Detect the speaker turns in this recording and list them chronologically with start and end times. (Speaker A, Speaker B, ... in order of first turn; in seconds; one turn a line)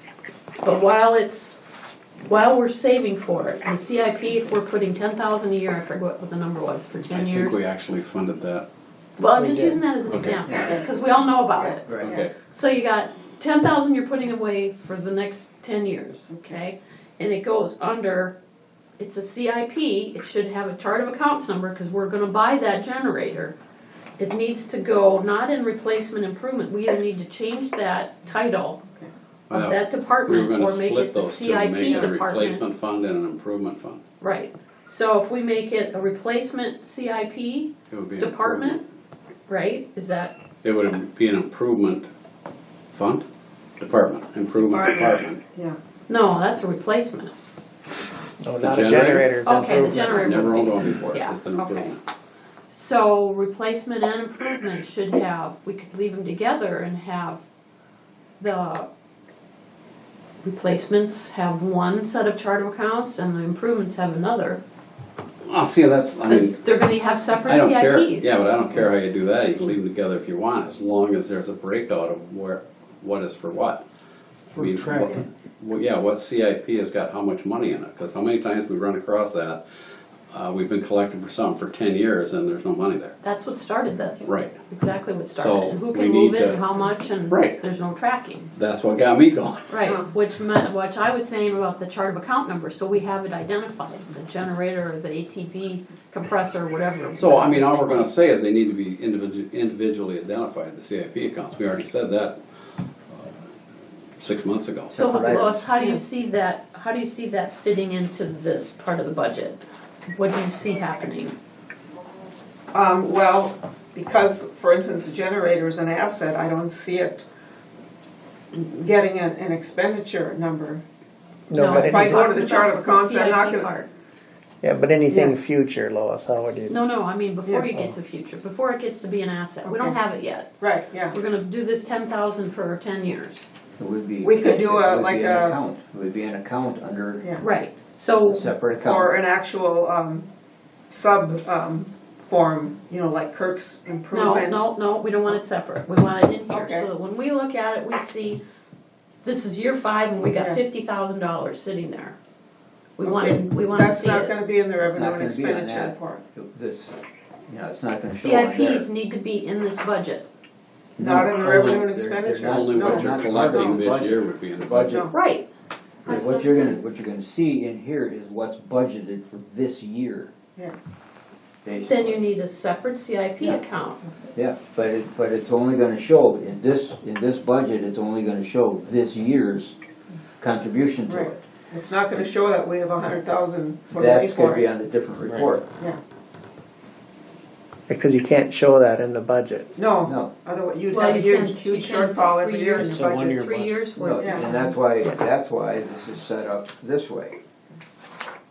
Speaker A: 0.6-1.6
Speaker A: 2.2-7.6
Speaker B: 7.1-8.7
Speaker A: 9.2-18.4
Speaker C: 9.4-9.8
Speaker B: 10.1-10.6
Speaker D: 10.4-10.8
Speaker E: 11.5-12.3
Speaker D: 11.9-12.1
Speaker B: 11.9-12.3
Speaker E: 16.3-16.6
Speaker A: 19.0-23.6
Speaker A: 24.2-28.8
Speaker B: 29.5-34.0
Speaker A: 29.5-32.6
Speaker E: 31.9-32.1
Speaker A: 34.2-38.8
Speaker B: 37.9-38.8
Speaker A: 39.5-40.4
Speaker B: 40.6-42.1
Speaker B: 42.9-43.2
Speaker B: 43.8-45.4
Speaker E: 44.7-45.8
Speaker A: 46.1-47.3
Speaker C: 48.4-50.5
Speaker B: 48.6-52.0
Speaker A: 49.4-51.4
Speaker E: 51.5-51.9
Speaker A: 52.7-57.4
Speaker A: 58.4-58.9
Speaker A: 60.4-64.6
Speaker B: 65.5-66.6
Speaker A: 66.3-68.3
Speaker B: 67.4-73.8
Speaker B: 74.5-79.6
Speaker B: 80.3-83.1
Speaker A: 83.2-88.5
Speaker B: 84.2-84.6
Speaker B: 85.3-87.6
Speaker B: 88.5-89.9
Speaker A: 89.7-98.1
Speaker B: 97.2-102.4
Speaker B: 104.2-105.2
Speaker C: 104.9-105.6
Speaker A: 105.0-111.3
Speaker E: 112.7-117.2
Speaker E: 118.5-120.8
Speaker C: 121.5-122.4
Speaker A: 121.5-123.9
Speaker E: 121.6-123.7
Speaker C: 124.6-126.7
Speaker E: 125.1-125.3
Speaker A: 126.7-130.6
Speaker E: 127.5-127.7
Speaker E: 129.6-130.0
Speaker E: 130.6-131.2
Speaker A: 131.1-133.4
Speaker D: 133.8-137.2
Speaker E: 134.2-135.6
Speaker A: 137.4-138.4
Speaker D: 138.3-139.2
Speaker E: 138.8-140.3
Speaker E: 140.9-144.7
Speaker A: 144.1-148.4
Speaker E: 146.5-146.9
Speaker A: 149.2-152.2
Speaker E: 150.3-150.6
Speaker A: 153.0-154.3
Speaker E: 153.0-156.2
Speaker D: 154.8-158.9
Speaker A: 158.1-160.3
Speaker D: 161.0-165.1
Speaker E: 161.0-163.8
Speaker B: 161.4-161.8
Speaker B: 162.4-165.1
Speaker E: 164.8-165.1
Speaker A: 165.1-165.5
Speaker A: 166.0-166.8
Speaker D: 166.1-170.3
Speaker D: 171.6-172.2
Speaker A: 171.9-174.0
Speaker D: 174.3-179.7
Speaker D: 180.4-181.4
Speaker E: 181.1-184.7
Speaker D: 183.9-185.7
Speaker C: 187.9-189.7
Speaker E: 189.8-193.4
Speaker D: 190.0-190.3
Speaker A: 190.9-194.8
Speaker C: 192.8-193.8
Speaker D: 194.0-197.3
Speaker E: 194.1-194.4